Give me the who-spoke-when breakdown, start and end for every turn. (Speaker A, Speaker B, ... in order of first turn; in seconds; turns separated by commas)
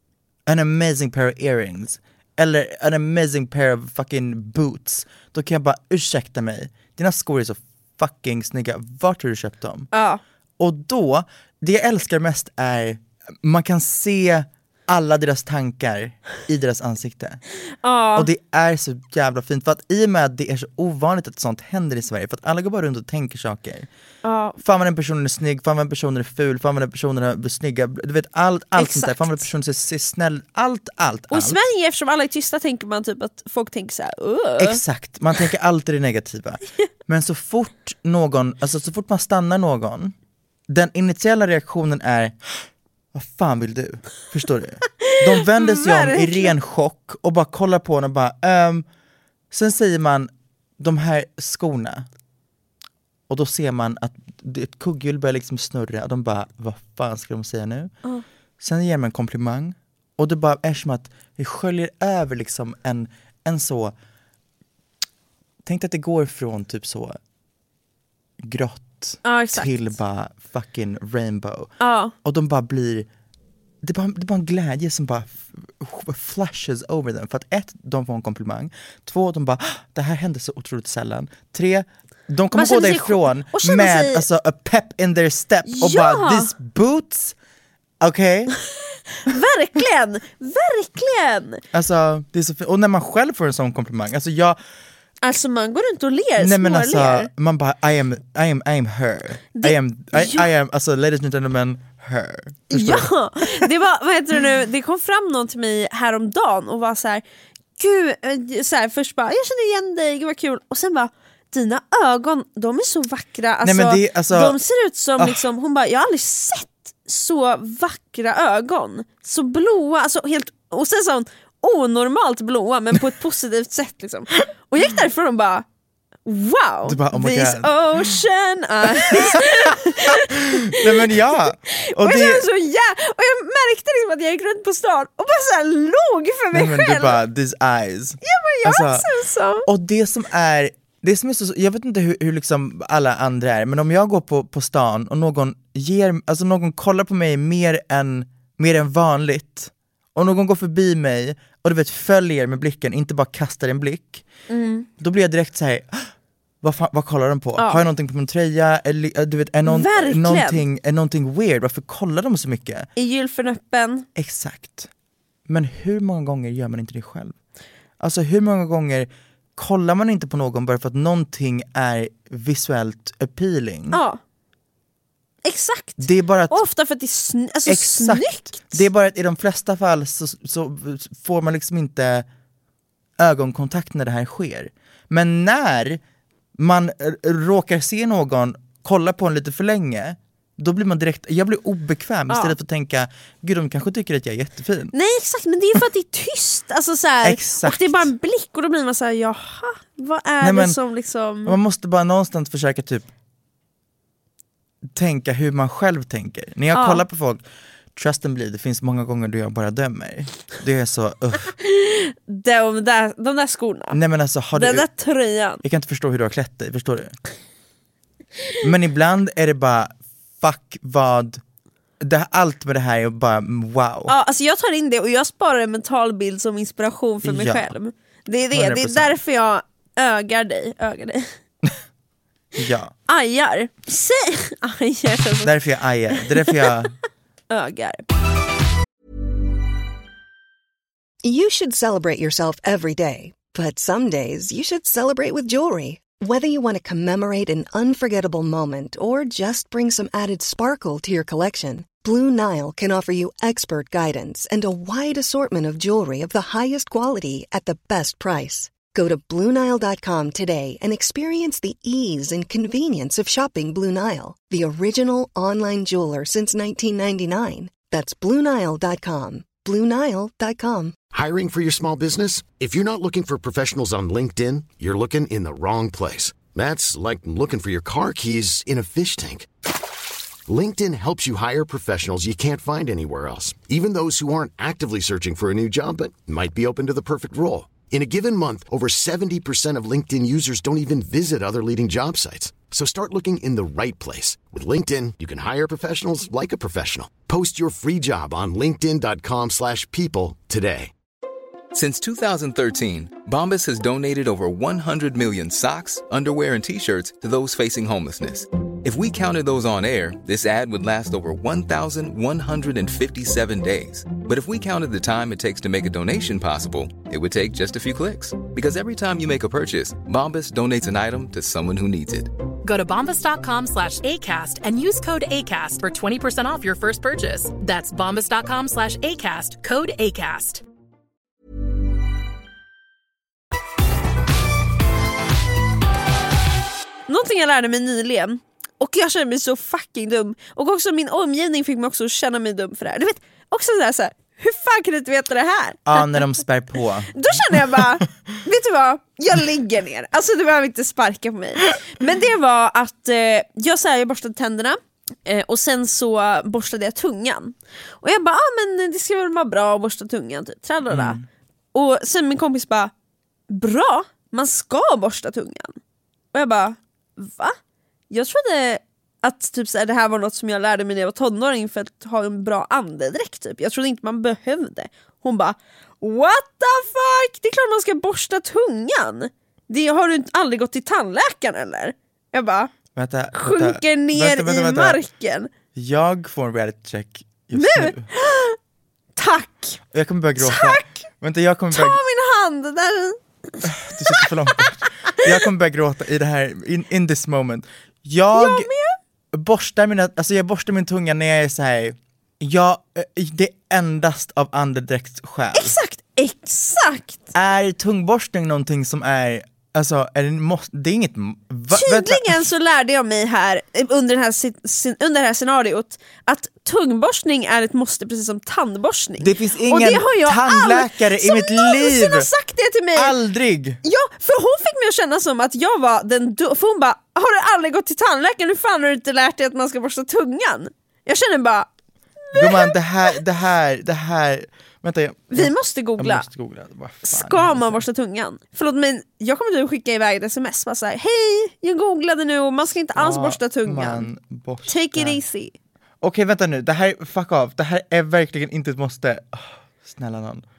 Speaker A: 0.5-9.9, Speaker B: 9.9-10.2, Speaker A: 10.6-17.4, Speaker B: 17.8-18.3, Speaker A: 18.1-23.9, Speaker B: 24.2-24.6, Speaker A: 24.6-31.6, Speaker B: 28.8-29.5, Speaker B: 31.3-34.8, Speaker A: 34.6-40.1, Speaker A: 40.7-42.4, Speaker A: 43.1-48.9, Speaker B: 45.0-46.5, Speaker A: 49.5-52.1, Speaker A: 53.3-57.9, Speaker A: 58.6-63.9, Speaker A: 65.6-67.2, Speaker A: 68.4-71.7, Speaker B: 69.2-69.9, Speaker B: 71.8-72.1, Speaker A: 72.2-73.1, Speaker A: 73.8-87.4, Speaker B: 82.5-84.2, Speaker B: 85.7-86.5, Speaker A: 88.0-88.5, Speaker B: 89.1-91.6, Speaker A: 91.7-94.6, Speaker B: 95.2-97.3, Speaker A: 96.4-103.7, Speaker B: 99.6-100.5, Speaker B: 102.7-107.2, Speaker B: 107.8-125.7, Speaker A: 113.6-114.6, Speaker A: 115.2-115.5, Speaker B: 126.2-137.2, Speaker A: 126.8-128.2, Speaker A: 128.8-132.5, Speaker A: 136.5-139.1, Speaker B: 138.2-139.7, Speaker A: 139.7-154.2, Speaker B: 154.5-154.9, Speaker A: 155.0-156.1, Speaker A: 156.6-162.9, Speaker B: 157.6-157.8, Speaker B: 159.7-160.6, Speaker B: 163.0-164.1, Speaker A: 164.2-164.9, Speaker A: 165.5-167.3, Speaker A: 168.0-174.0, Speaker B: 173.9-174.2, Speaker B: 175.4-178.8, Speaker A: 176.0-176.6, Speaker A: 177.7-182.3, Speaker A: 183.2-186.0, Speaker A: 186.6-194.9, Speaker B: 192.3-192.6, Speaker B: 194.9-201.6, Speaker A: 197.2-198.1, Speaker A: 200.4-200.8, Speaker A: 201.4-203.1, Speaker A: 204.9-207.4, Speaker B: 206.7-207.0, Speaker A: 207.9-211.5, Speaker B: 211.6-214.0, Speaker A: 213.9-214.9, Speaker B: 214.5-215.6, Speaker A: 215.6-217.2, Speaker A: 218.6-221.4, Speaker A: 222.0-224.2, Speaker B: 224.1-231.3, Speaker A: 227.2-227.7, Speaker A: 228.5-229.2, Speaker A: 232.6-232.9, Speaker B: 233.1-235.5, Speaker A: 235.4-236.9, Speaker B: 236.1-236.8, Speaker B: 237.5-238.1, Speaker C: 241.2-271.0, Speaker D: 271.1-279.5, Speaker D: 280.5-300.9, Speaker E: 301.7-322.3, Speaker F: 322.6-330.6, Speaker B: 337.1-346.2, Speaker A: 345.9-347.8, Speaker B: 347.1-361.2, Speaker A: 360.9-361.2, Speaker B: 361.7-362.9, Speaker B: 363.5-365.8, Speaker B: 366.3-367.6, Speaker B: 368.1-382.7, Speaker A: 383.0-385.0, Speaker B: 383.4-385.5, Speaker A: 385.8-388.1, Speaker B: 387.6-388.6, Speaker B: 389.2-389.8, Speaker A: 389.9-392.0, Speaker B: 390.4-391.0, Speaker B: 391.7-394.7, Speaker A: 393.6-398.7, Speaker B: 398.3-399.0, Speaker A: 399.3-405.8, Speaker B: 405.5-407.3, Speaker A: 407.3-412.5, Speaker B: 411.7-423.2, Speaker A: 419.2-422.3, Speaker A: 422.9-423.8, Speaker B: 423.8-431.7, Speaker B: 432.2-433.1, Speaker A: 432.3-437.8, Speaker B: 435.3-436.3, Speaker B: 437.1-444.1, Speaker A: 443.0-445.2, Speaker B: 444.7-445.5, Speaker A: 446.0-450.4